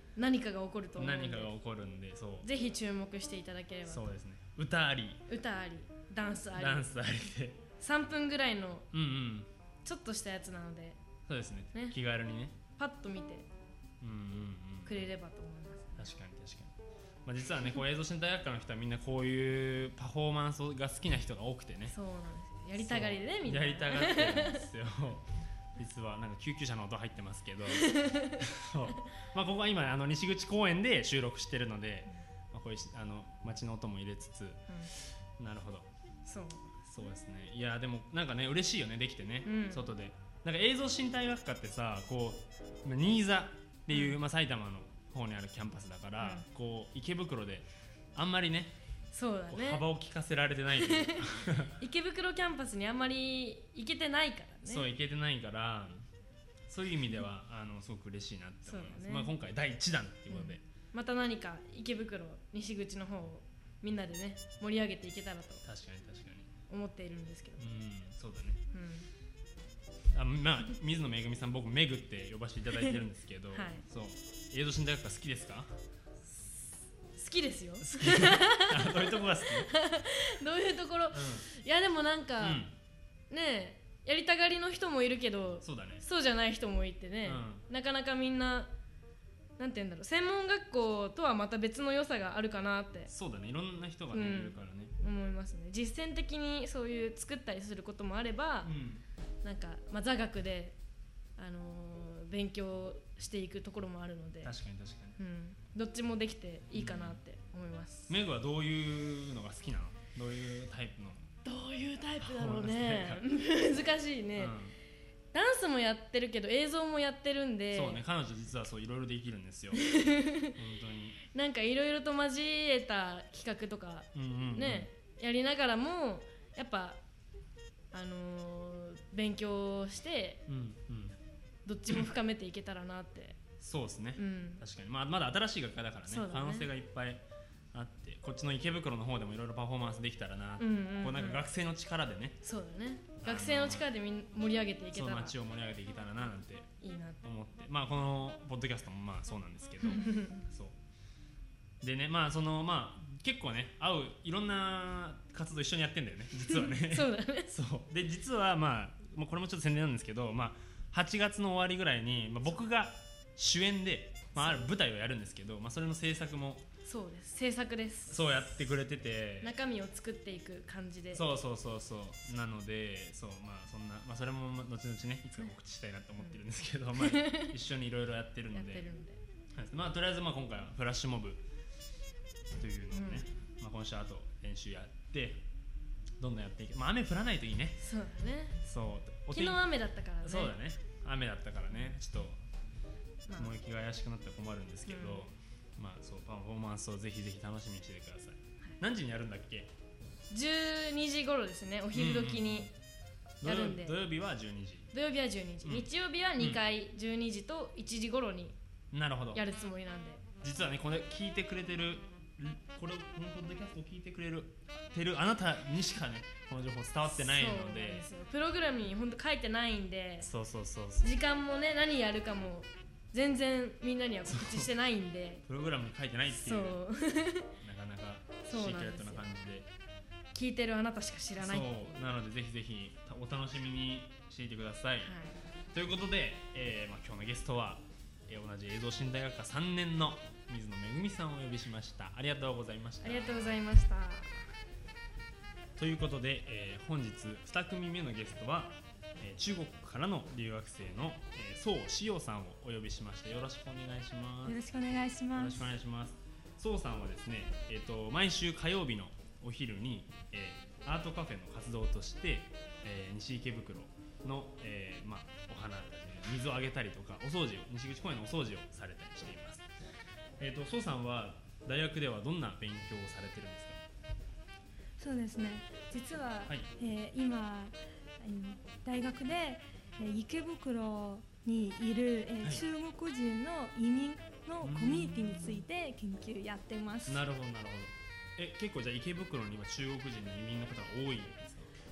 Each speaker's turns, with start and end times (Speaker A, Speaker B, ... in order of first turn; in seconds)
Speaker A: 0.2-1.5, 2.4-4.0, 5.3-7.0, 7.8-8.9, 9.8-11.0, 12.8-13.5, 14.8-16.1, 21.9-24.7, 27.7-28.4, 36.2-36.6, 39.4-39.9, 43.9-44.2, 46.2-46.4, 49.1-49.8, 50.8-54.9, 58.6-59.3, 60.3-65.6, 66.7-67.6, 68.7-69.1, 73.5-73.8, 77.1-82.7, 83.3-88.7, 89.6-93.1, 94.1-98.7, 99.4-100.8, 101.4-104.5, 105.2-108.1, 111.4-114.6, 115.3-118.0, 119.8-120.6, 121.2-127.0, 127.9-130.4, 131.7-133.4, 134.2-134.6, 136.1-136.7, 140.6-141.4, 142.4-145.4, 146.8-147.2, 149.8-150.4, 156.4-157.5, 166.8-168.6, 169.4-171.3, 176.9-177.5, 178.5-179.2, 182.9-183.2, 187.8-188.6, 189.3-190.6, 193.3-193.5, 194.9-195.3, 200.3-202.7, 203.4-204.0, 204.9-208.6, 209.3-210.2, 217.1-220.3, 221.0-225.4, 226.3-227.5, 228.4-229.3, 230.3-231.9, 235.0-235.4, 243.0-244.5
Speaker B: 1.0-2.5, 3.9-5.2, 6.6-7.6, 8.9-9.5, 11.3-12.6, 14.0-15.0, 16.0-22.0, 22.8-35.9, 36.8-48.8, 49.5-51.8, 54.6-56.0, 56.7-60.6, 65.6-66.5, 67.6-68.6, 70.1-75.7, 77.8-79.7, 81.1-81.5, 82.4-82.7, 85.6-86.0, 87.2-87.6, 93.1-94.9, 98.6-99.0, 104.4-105.2, 106.7-107.2, 108.1-111.3, 112.2-113.2, 114.3-114.8, 117.7-119.9, 120.4-121.2, 124.1-124.9, 130.5-131.2, 133.6-142.4, 143.2-143.9, 144.9-146.7, 147.2-150.8, 151.8-166.7, 168.1-169.5, 171.1-178.9, 179.6-181.4, 182.5-185.4, 186.2-187.8, 188.6-189.6, 190.2-192.4, 193.4-199.7, 201.9-202.7, 203.4-204.9, 205.6-206.6, 208.9-209.4, 210.4-218.1, 220.2-221.1, 224.2-224.7, 225.4-226.8, 227.6-229.7, 231.4-235.1, 235.7-243.6, 245.8-254.6, 255.4-269.7, 270.4-273.8, 284.6-285.6, 287.1-291.7
Speaker C: 254.4-255.7, 275.0-287.2